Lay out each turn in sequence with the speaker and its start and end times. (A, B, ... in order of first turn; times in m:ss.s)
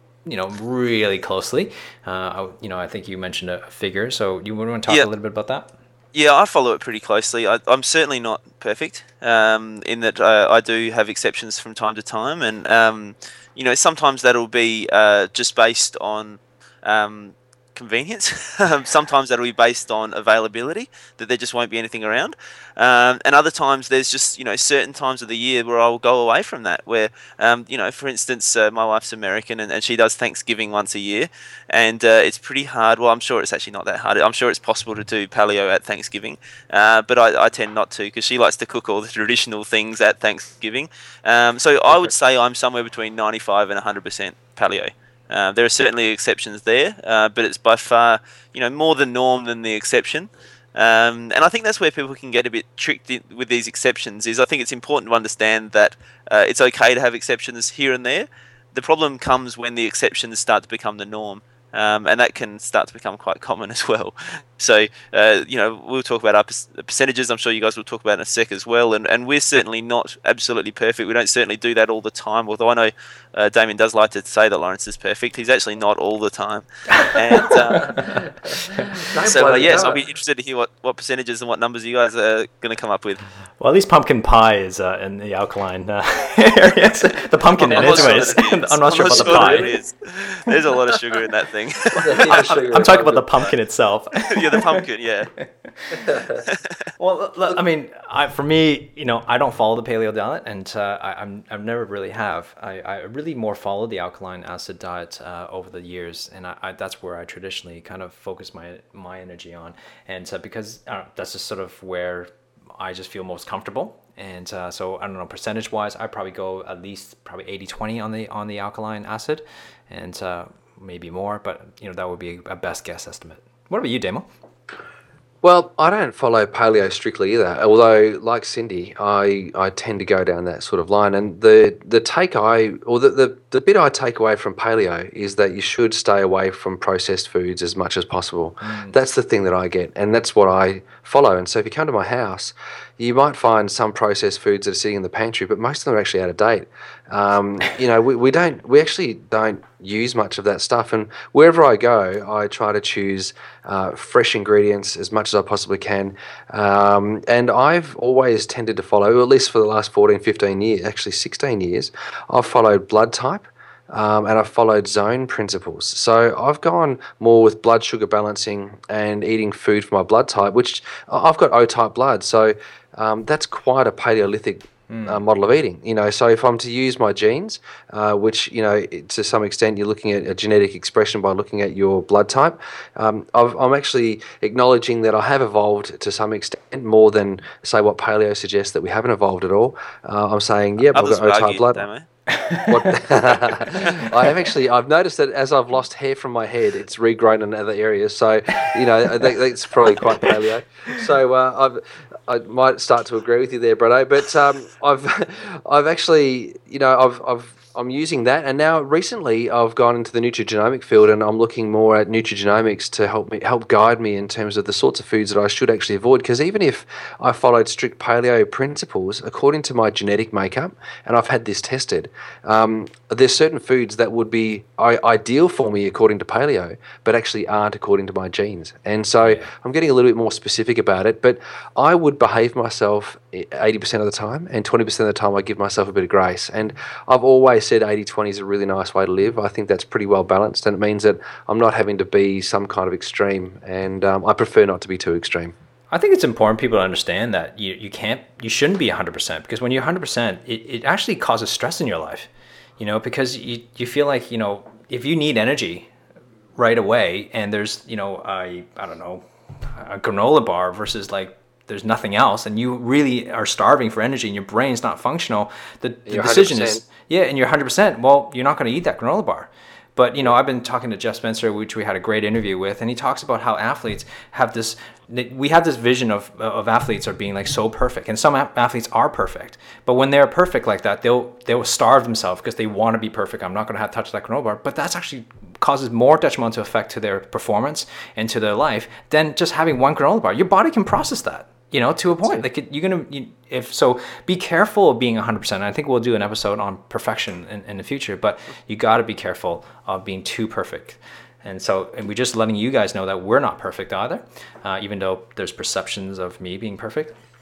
0:00.2-0:05.7 A
0:06.1-1:18.1 B
1:16.9-1:19.0 A
1:19.0-1:20.0 C
1:19.2-1:23.2 B
1:23.6-1:29.7 A
1:27.6-1:32.7 B
1:27.7-1:28.4 C
1:29.1-1:29.7 C
1:32.0-1:33.3 C
1:32.1-1:34.8 A
1:34.3-1:35.3 B
1:35.4-1:36.0 A
1:36.0-1:36.4 C
1:37.0-2:04.3 A
2:05.4-3:11.9 C
2:18.6-2:18.9 A
2:54.9-2:55.2 A
3:10.9-3:12.1 B
3:12.3-3:12.9 A
3:12.6-4:05.5 C
4:05.9-4:15.9 A
4:16.6-5:07.1 A
4:26.1-4:26.8 C
4:52.2-4:52.4 C